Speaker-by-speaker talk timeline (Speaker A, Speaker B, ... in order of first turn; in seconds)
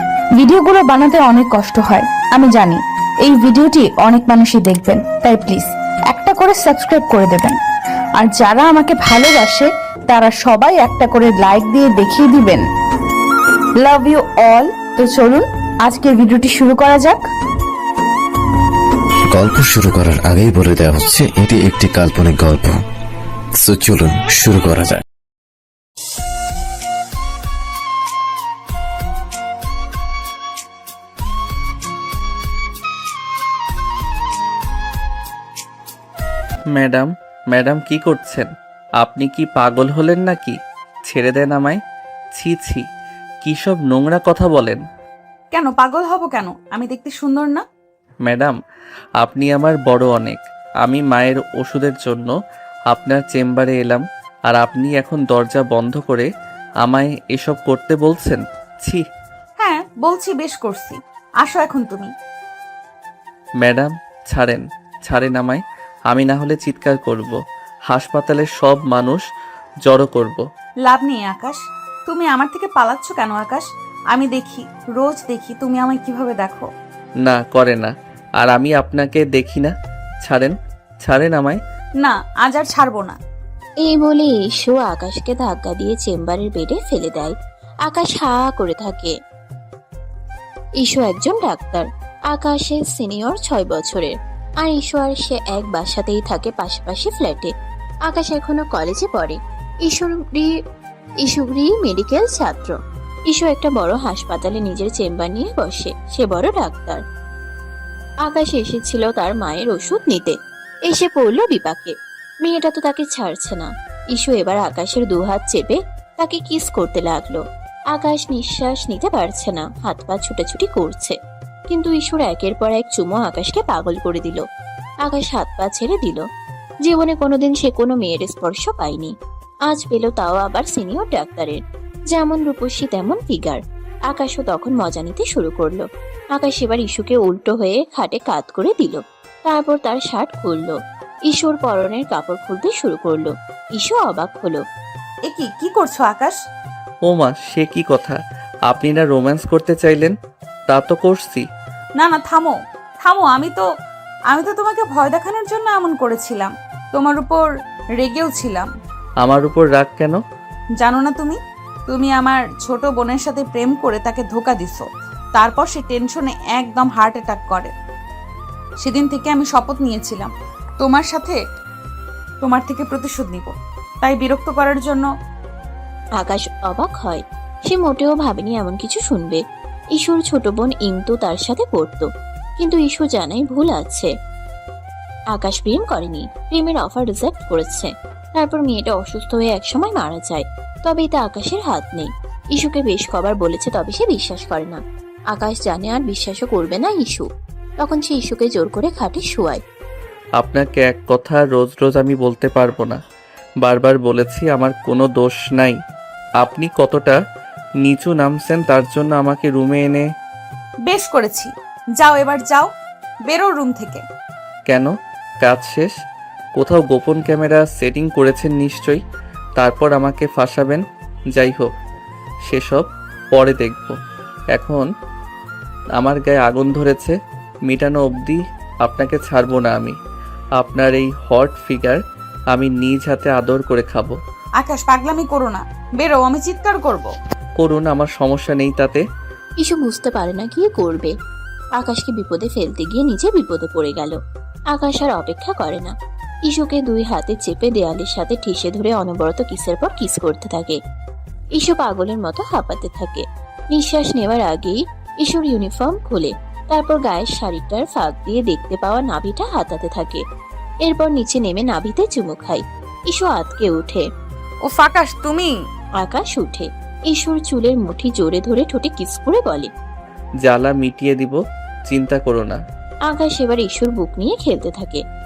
Speaker A: 0.4-7.6, 8.2-12.7, 13.8-17.3
Speaker B: 19.3-22.8, 23.6-25.0
Speaker C: 36.8-40.6, 41.1-41.8, 42.4-42.8, 43.4-44.8, 48.2-48.6, 49.2-52.3, 52.9-56.3, 56.8-59.0, 63.6-67.4, 67.9-69.2, 69.8-70.5, 77.2-81.6, 147.1-150.1, 150.7-151.4, 159.2-160.2, 200.4-203.0, 203.6-205.8, 206.4-207.2, 207.8-210.1, 215.4-215.9, 216.6-219.0, 219.6-221.7, 222.5-224.0, 224.5-224.9, 226.0-227.2, 227.7-230.0, 230.6-232.0, 232.5-234.2, 237.6-239.0, 270.4-272.6
Speaker D: 45.5-47.6, 59.6-62.1, 70.9-76.7, 82.0-83.2, 145.3-146.4, 152.0-153.7, 154.3-157.5, 158.0-158.7, 160.8-167.7, 168.8-171.4, 172.4-175.1, 210.9-212.7, 213.3-214.0, 234.6-237.1, 264.7-265.6
Speaker E: 83.8-89.2, 90.8-97.5, 98.1-100.5, 101.2-102.8, 103.3-107.0, 108.2-110.4, 110.9-121.2, 121.7-124.4, 125.0-126.2, 126.8-129.1, 129.7-131.6, 132.1-140.8, 141.3-144.6, 176.2-179.4, 179.9-182.1, 182.6-184.1, 185.3-197.3, 197.8-199.6, 239.6-241.1, 241.7-244.2, 244.7-245.9, 246.5-250.8, 251.6-260.2, 260.8-264.1, 266.0-269.7, 273.1-275.0